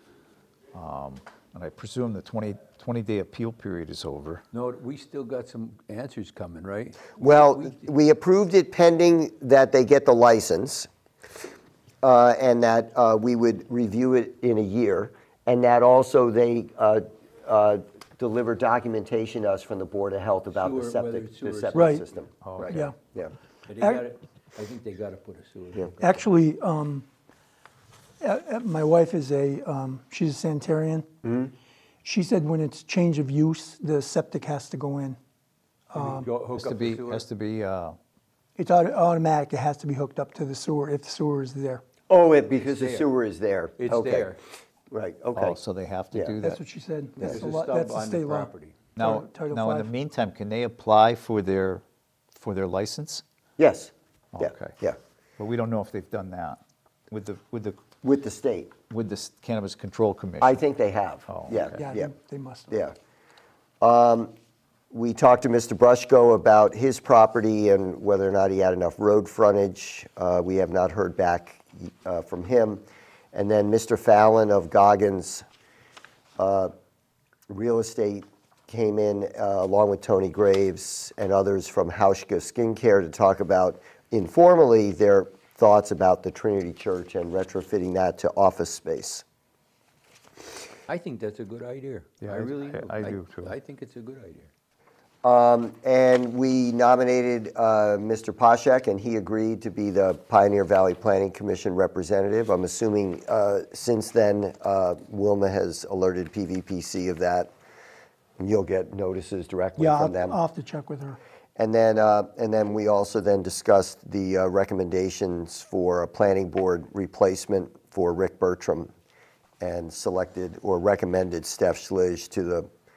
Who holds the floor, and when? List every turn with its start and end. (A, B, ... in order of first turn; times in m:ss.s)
0:00.7-0:04.4 A
0:04.5-0:07.8 B
0:07.2-0:10.9 C
0:12.0-0:23.3 C
0:20.5-0:22.0 B
0:21.7-0:22.0 D
0:22.4-0:22.8 A
0:22.7-0:22.9 D
0:23.7-0:26.2 B
0:26.0-0:27.0 D
0:28.2-0:31.1 D
0:31.2-0:31.5 C
0:32.0-0:35.2 D
0:35.9-0:36.3 D
0:35.9-0:37.2 B
0:36.6-0:38.0 A
0:38.6-0:41.8 D
0:42.1-0:44.3 C
0:42.5-0:43.1 B
0:43.8-0:44.4 B
0:44.9-0:45.6 C
0:45.3-0:46.6 A
0:46.4-0:49.9 D
0:47.2-0:48.8 B
0:48.9-0:51.8 A
0:52.3-0:53.2 A
0:53.6-0:55.0 C
0:54.3-0:54.7 A
0:55.4-0:57.8 A
0:58.0-0:58.7 C
0:58.9-1:00.6 A
1:00.4-1:02.1 C
1:01.3-1:01.8 A
1:01.8-1:02.7 D
1:02.7-1:02.9 C
1:03.8-1:04.3 C
1:04.9-1:15.4 C
1:16.4-1:16.7 C
1:17.5-1:29.2 C
1:30.9-1:34.5 B
1:32.2-1:33.5 A
1:35.2-1:47.5 C
1:48.4-1:50.4 C
1:49.8-1:51.2 D
1:51.6-1:58.9 C
1:59.6-2:02.7 C